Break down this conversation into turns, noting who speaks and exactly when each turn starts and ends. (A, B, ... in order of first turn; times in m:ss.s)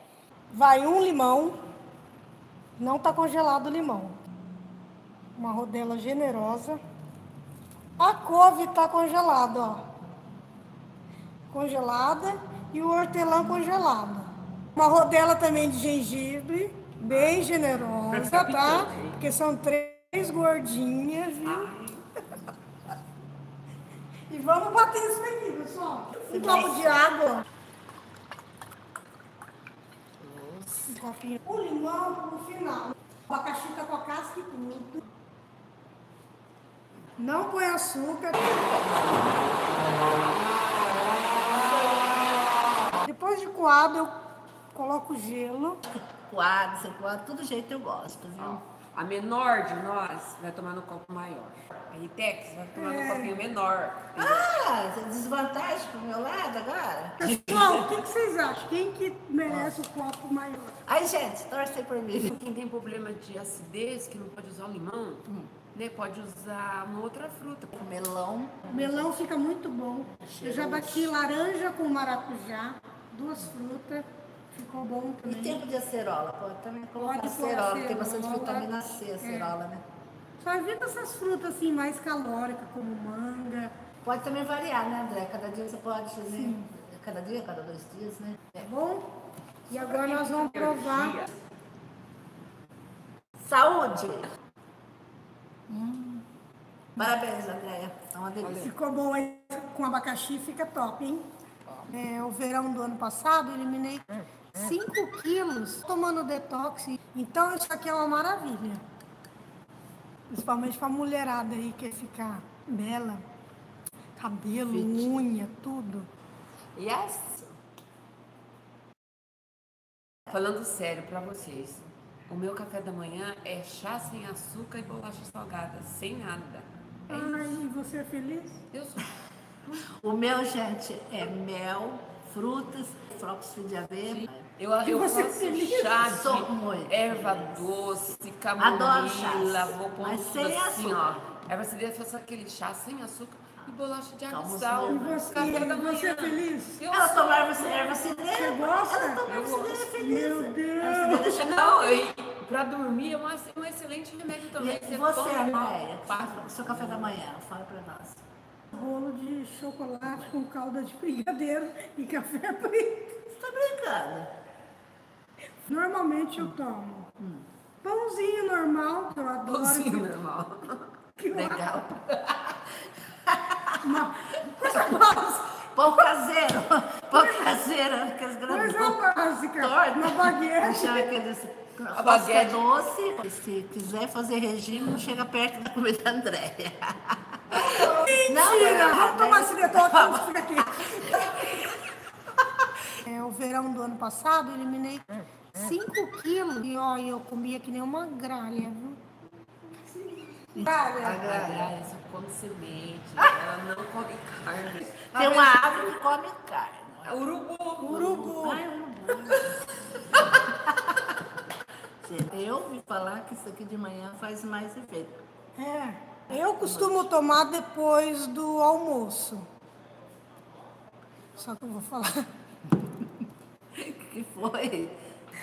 0:00.5-0:01.6 A
0:02.8-0:04.2 A
0:05.4-0:06.8 A
0:08.0-0:09.9 A
0:11.5-0:21.7 A
0:17.1-0:17.4 B
0:18.1-0:19.2 B
0:21.4-0:22.2 B
0:24.3-0:27.4 A
0:26.1-0:27.0 C
0:30.2-0:30.7 C
0:30.9-0:35.0 A
0:37.2-0:38.7 A
0:38.6-0:39.0 C
0:43.0-0:44.1 A
0:44.7-0:45.8 A
0:46.3-0:48.6 C
0:48.4-0:54.5 B
0:52.8-0:53.4 A
0:54.2-0:57.3 C
0:57.2-1:00.8 A
0:57.4-0:57.9 B
0:59.5-0:59.8 C
1:00.8-1:02.3 C
1:02.2-1:07.7 B
1:07.7-1:09.1 C
1:08.7-1:15.6 A
1:10.2-1:11.1 C
1:15.2-1:19.8 C
1:17.0-1:18.7 A
1:19.2-1:19.6 A
1:20.4-1:23.7 A
1:24.0-1:28.7 C
1:26.3-1:26.7 A
1:28.6-1:29.1 A
1:29.7-1:31.2 A
1:29.7-1:31.3 B
1:33.4-1:34.3 C
1:35.7-1:36.2 C
1:37.0-1:38.7 C
1:38.4-1:38.7 B
1:38.6-1:41.3 A
1:41.9-1:48.8 A
1:50.3-1:53.2 A
1:54.2-1:56.1 A
1:54.6-1:55.2 C
1:56.8-1:57.5 B
2:00.3-2:07.6 B
2:07.1-2:08.6 A
2:08.7-2:09.1 B
2:09.9-2:14.5 C
2:14.1-2:27.6 B
2:14.9-2:16.0 A
2:15.9-2:17.7 C
2:18.6-2:21.2 C
2:24.3-2:25.7 C
2:24.9-2:26.8 A
2:26.9-2:32.0 C
2:27.6-2:29.3 A
2:29.2-2:29.9 B
2:30.0-2:31.3 A
2:31.1-2:37.2 B
2:34.6-2:38.2 C
2:38.7-2:43.1 A
2:43.3-2:44.3 C
2:45.6-2:47.1 A
2:47.2-2:47.4 C
2:47.8-2:50.1 A
2:49.4-2:52.6 B
2:51.2-2:51.9 A
2:53.8-2:55.6 A
2:55.6-3:11.7 C
2:57.1-2:57.6 A
2:58.5-3:01.1 A
3:01.9-3:02.6 B
3:04.7-3:05.1 B
3:07.5-3:11.6 A
3:13.0-3:19.0 A
3:19.9-3:20.9 A
3:20.6-3:21.7 C
3:20.6-3:25.9 B
3:25.1-3:27.2 C
3:27.0-3:28.6 B
3:27.8-3:28.6 A
3:27.9-3:29.6 C
3:29.2-3:29.5 B
3:30.1-3:31.1 C
3:32.0-3:35.2 C
3:35.6-3:39.5 A
3:36.3-3:37.1 C
3:41.4-3:42.3 A
3:43.7-3:45.0 C